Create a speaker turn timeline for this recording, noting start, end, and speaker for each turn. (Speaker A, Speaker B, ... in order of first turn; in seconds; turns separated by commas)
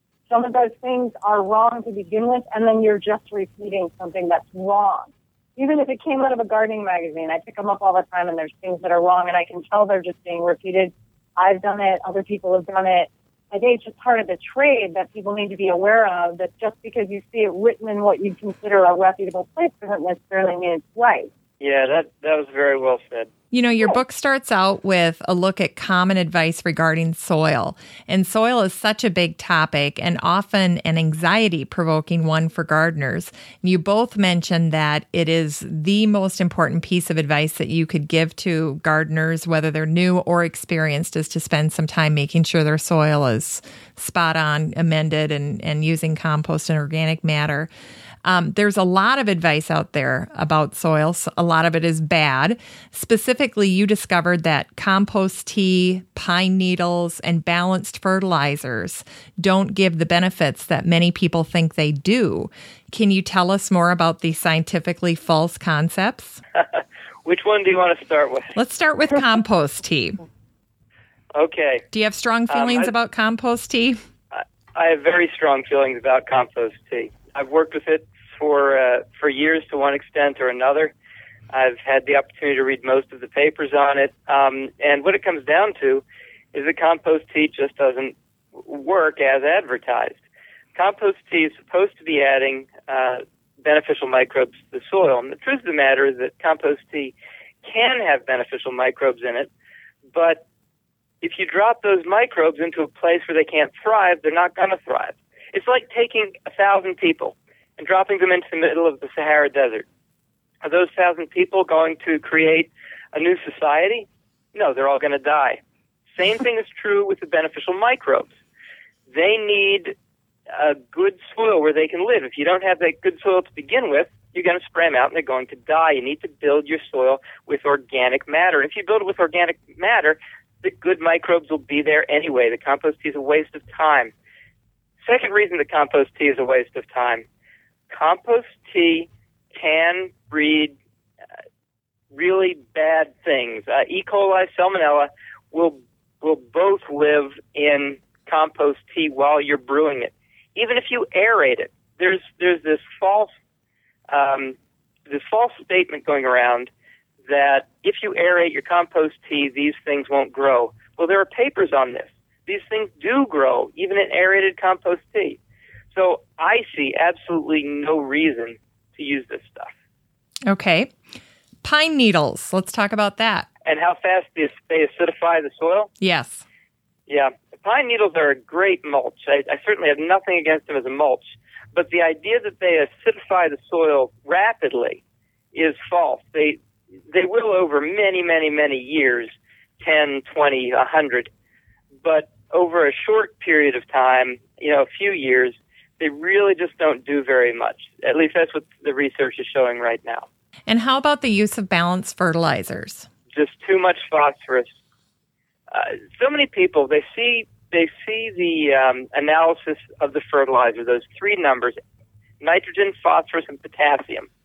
Speaker A: 0.3-21.3, Speaker B: 21.6-23.3, Speaker C: 23.5-47.7, Speaker C: 48.2-66.4, Speaker B: 66.5-68.5, Speaker C: 68.5-70.2, Speaker B: 71.3-71.8, Speaker C: 71.9-74.0, Speaker B: 72.5-72.9, Speaker B: 74.3-80.9, Speaker B: 81.5-90.2, Speaker B: 90.8-99.5, Speaker B: 100.1-100.4, Speaker B: 101.2-109.9, Speaker B: 110.6-115.6, Speaker B: 116.1-118.3, Speaker B: 119.1-120.0, Speaker B: 120.5-134.1, Speaker B: 135.0-137.2, Speaker B: 137.9-140.8, Speaker B: 142.1-153.3, Speaker B: 154.1-154.6, Speaker B: 155.1-156.7, Speaker B: 157.3-165.4, Speaker B: 165.9-169.7, Speaker C: 170.5-170.9, Speaker C: 171.6-173.5, Speaker B: 173.6-175.9, Speaker C: 176.0-176.4, Speaker B: 177.1-185.0, Speaker B: 185.5-191.3, Speaker B: 192.0-200.3, Speaker C: 200.7-203.1, Speaker B: 203.3-204.7, Speaker B: 205.7-211.8, Speaker B: 212.4-214.3